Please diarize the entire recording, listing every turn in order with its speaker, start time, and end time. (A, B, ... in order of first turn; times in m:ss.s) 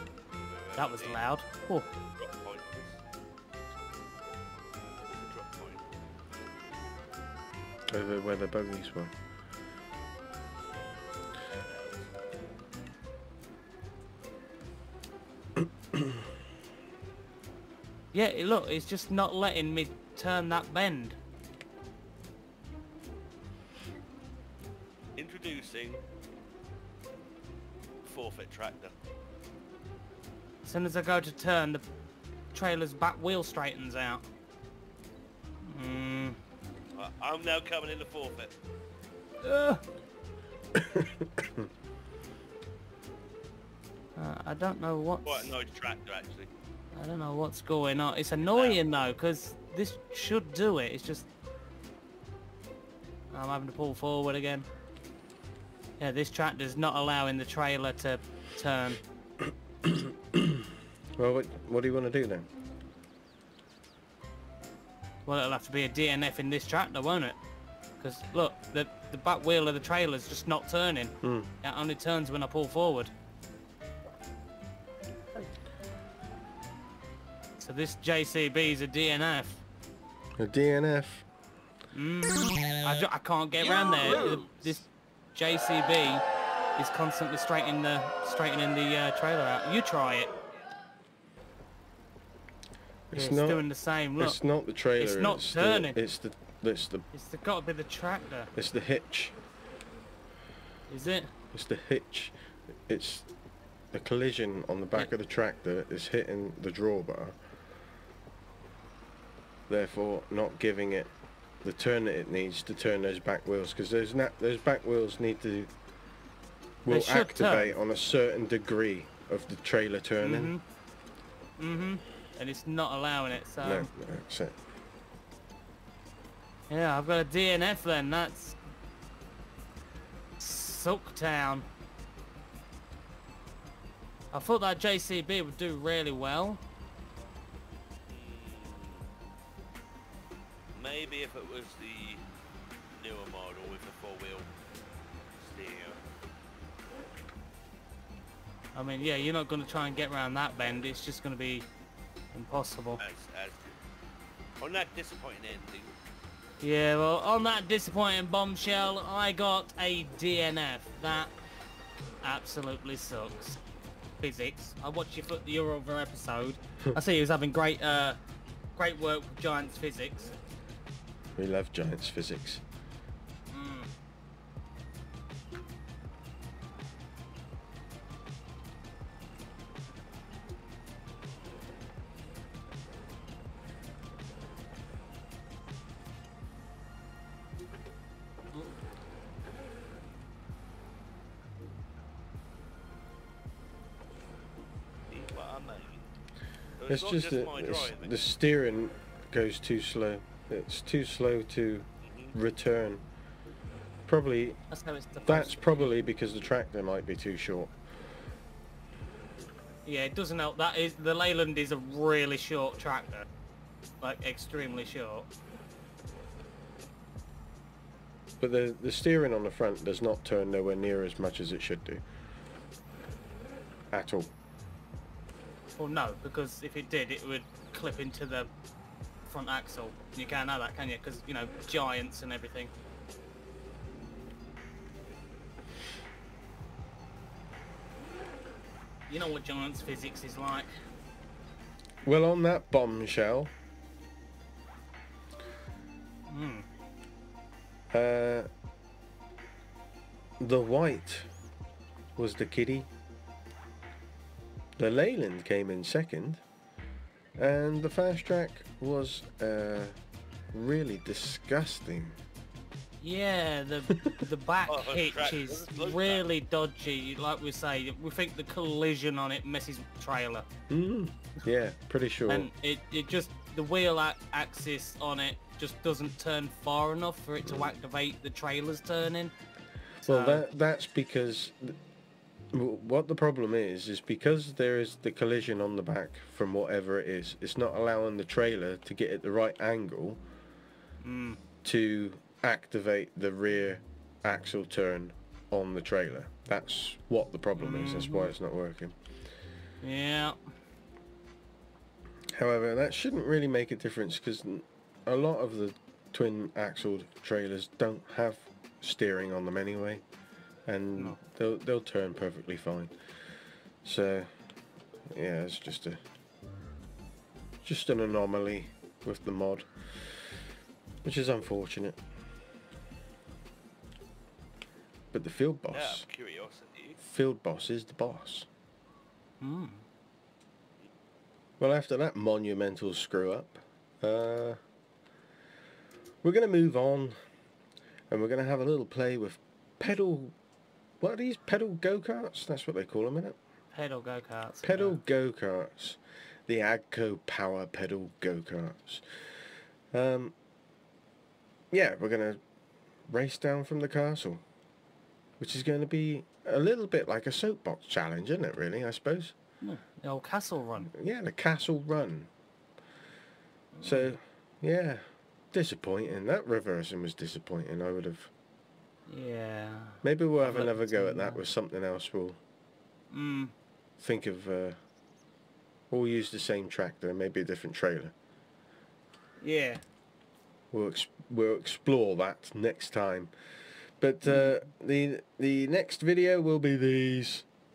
0:00.5-0:01.2 A
0:00.8-0:01.9 B
0:02.1-0:03.0 A
0:05.2-0:05.8 A
0:07.9-0:09.1 C
0:11.5-0:12.1 A
0:18.1-0:21.2 B
0:25.2-0:26.0 A
0:28.0-0:28.9 A
0:30.6-0:31.8 B
0:32.5-0:34.2 B
0:35.6-0:36.4 B
0:36.9-0:38.5 A
0:39.4-0:39.8 B
0:40.8-0:41.7 C
0:44.2-0:45.5 B
0:45.2-0:46.5 A
0:46.9-0:51.3 B
0:48.5-0:48.8 A
0:53.3-0:54.7 B
0:56.0-0:59.0 B
0:59.8-1:02.5 C
1:05.3-1:07.4 B
1:08.0-1:13.1 B
1:11.2-1:11.5 C
1:17.6-1:19.6 B
1:20.4-1:21.2 C
1:21.9-1:26.2 B
1:23.6-1:24.8 A
1:26.8-1:30.3 B
1:33.1-1:33.7 C
1:33.1-1:34.4 B
1:34.2-1:37.1 C
1:35.0-1:36.0 B
1:37.1-1:38.5 B
1:38.6-1:39.4 C
1:40.9-1:41.3 B
1:41.5-1:42.3 C
1:42.9-1:43.3 C
1:43.9-1:47.4 C
1:49.7-1:51.1 C
1:51.6-1:55.7 C
1:56.8-2:00.5 C
1:56.9-1:57.8 B
2:00.2-2:00.6 B
2:01.6-2:03.9 B
2:03.6-2:04.6 C
2:06.7-2:08.6 B
2:10.4-2:11.6 B
2:14.3-2:16.6 B
2:18.1-2:19.1 A
2:20.7-2:22.2 A
2:23.0-2:24.5 A
2:25.4-2:26.0 A
2:28.8-2:31.7 B
2:32.3-2:33.0 B
2:33.0-2:33.8 A
2:34.6-2:35.9 A
2:36.6-2:41.3 B
2:42.2-2:43.6 B
2:44.2-2:48.2 B
2:48.8-2:50.3 B
2:51.4-2:52.6 C
2:53.5-2:53.9 B
3:15.1-3:16.0 A
3:16.8-3:18.2 A
3:16.9-3:23.0 C
3:22.0-3:22.4 A
3:24.1-3:24.6 C
3:24.7-3:25.9 B
3:25.3-3:27.7 C
3:29.9-3:33.3 B
3:34.0-3:35.3 B
3:38.4-3:42.0 C
3:43.9-3:44.3 C
3:45.8-3:48.5 B
3:49.2-3:52.7 B
3:59.1-4:00.7 B
4:02.0-4:03.5 C
4:06.3-4:06.6 B
4:07.9-4:08.5 C
4:10.4-4:11.3 C
4:12.2-4:12.9 C
4:14.8-4:16.4 C
4:17.4-4:20.0 C
4:20.5-4:22.2 C
4:23.0-4:30.5 B
4:23.9-4:24.2 C
4:24.7-4:26.2 A
4:30.7-4:32.5 C
4:32.3-4:39.3 B
4:37.4-4:37.7 C
4:40.0-4:41.8 C
4:40.0-4:40.5 B
4:42.5-4:50.2 C
4:51.0-4:51.4 B
4:51.6-4:59.0 C
4:57.6-4:58.3 B
4:59.8-5:00.4 B
5:02.3-5:10.0 C
5:10.7-5:12.9 C
5:13.8-5:14.3 C
5:15.1-5:16.0 C
5:17.6-5:20.3 C
5:21.0-5:22.0 C
5:25.1-5:26.0 C
5:25.7-5:27.0 A
5:27.0-5:28.5 C
5:29.4-5:29.8 B
5:31.6-5:34.6 C
5:36.2-5:37.2 C
5:38.1-5:40.3 C
5:41.0-5:43.4 C
5:43.7-5:45.0 B
5:44.6-5:49.1 C
5:49.9-5:50.4 C
5:51.7-5:52.4 C
5:53.1-5:54.4 C
5:55.4-5:59.3 C
5:59.6-6:00.9 B
6:00.9-6:02.3 C
6:03.8-6:04.1 B
6:03.8-6:08.3 C
6:09.1-6:11.4 B
6:10.0-6:12.4 C
6:13.1-6:13.5 B
6:14.0-6:14.8 C
6:15.9-6:18.1 C
6:19.4-6:19.8 B
6:20.7-6:23.3 C
6:24.0-6:27.5 C
6:24.3-6:24.6 B